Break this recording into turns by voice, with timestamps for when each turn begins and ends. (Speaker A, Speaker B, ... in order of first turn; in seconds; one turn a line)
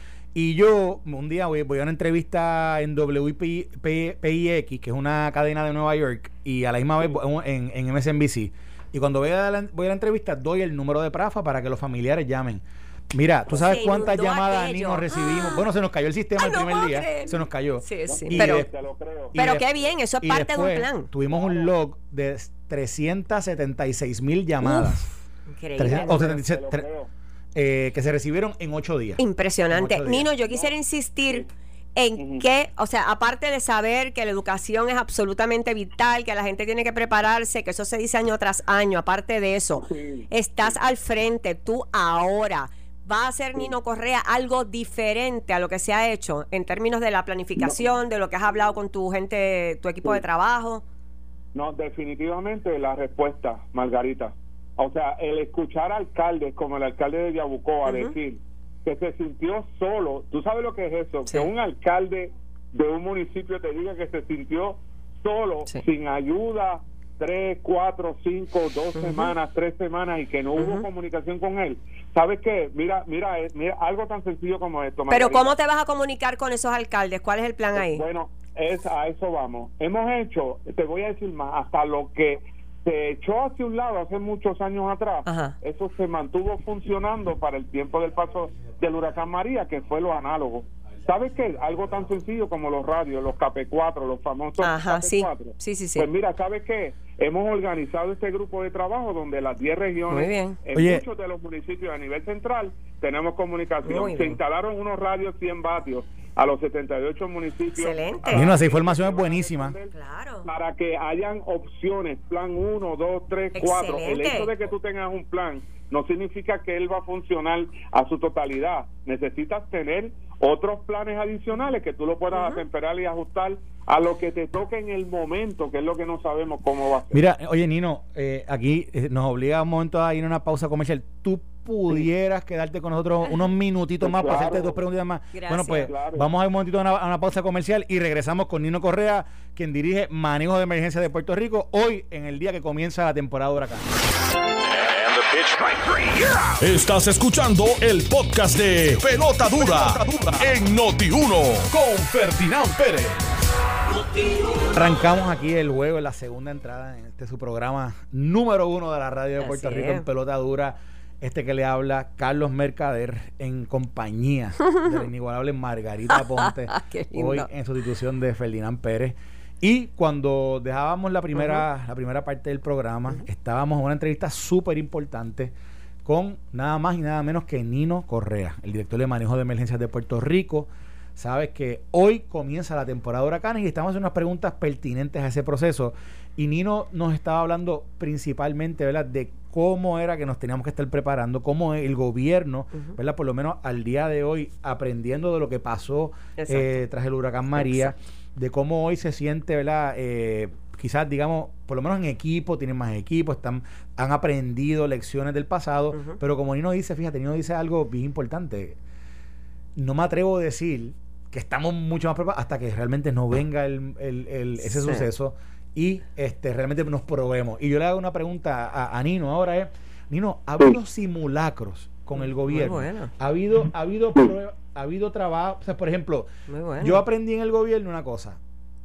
Speaker A: 0.3-18.7
Speaker B: 13.5-15.6
Speaker B: 16.4-18.6
Speaker C: 18.1-19.4
Speaker A: 19.3-19.6
Speaker B: 19.4-21.1
Speaker A: 20.2-25.1
Speaker C: 21.2-21.7
Speaker B: 24.6-25.0
Speaker B: 25.5-26.2
Speaker A: 25.8-26.9
Speaker C: 25.8-27.1
Speaker A: 27.6-30.3
Speaker B: 29.2-50.8
Speaker C: 32.2-32.4
Speaker C: 39.8-40.3
Speaker C: 51.5-75.5
Speaker B: 57.9-58.1
Speaker B: 69.0-69.3
Speaker B: 70.6-70.8
Speaker B: 75.1-78.0
Speaker C: 77.7-109.9
Speaker B: 85.2-85.5
Speaker B: 94.6-96.1
Speaker B: 100.1-100.6
Speaker A: 100.7-101.0
Speaker B: 103.8-104.4
Speaker B: 107.7-108.6
Speaker A: 108.3-109.7
Speaker B: 109.9-110.5
Speaker C: 110.4-127.2
Speaker B: 113.5-114.5
Speaker B: 122.3-122.6
Speaker A: 127.1-143.9
Speaker C: 134.0-134.8
Speaker B: 135.3-135.9
Speaker C: 135.7-136.3
Speaker D: 146.6-153.2
Speaker A: 154.7-175.5
Speaker B: 159.4-160.1
Speaker B: 166.1-167.5
Speaker A: 176.1-208.8
Speaker B: 196.4-196.8
Speaker A: 209.8-226.3
Speaker B: 214.6-215.1
Speaker B: 222.5-223.1
Speaker B: 226.5-227.0
Speaker A: 226.8-228.4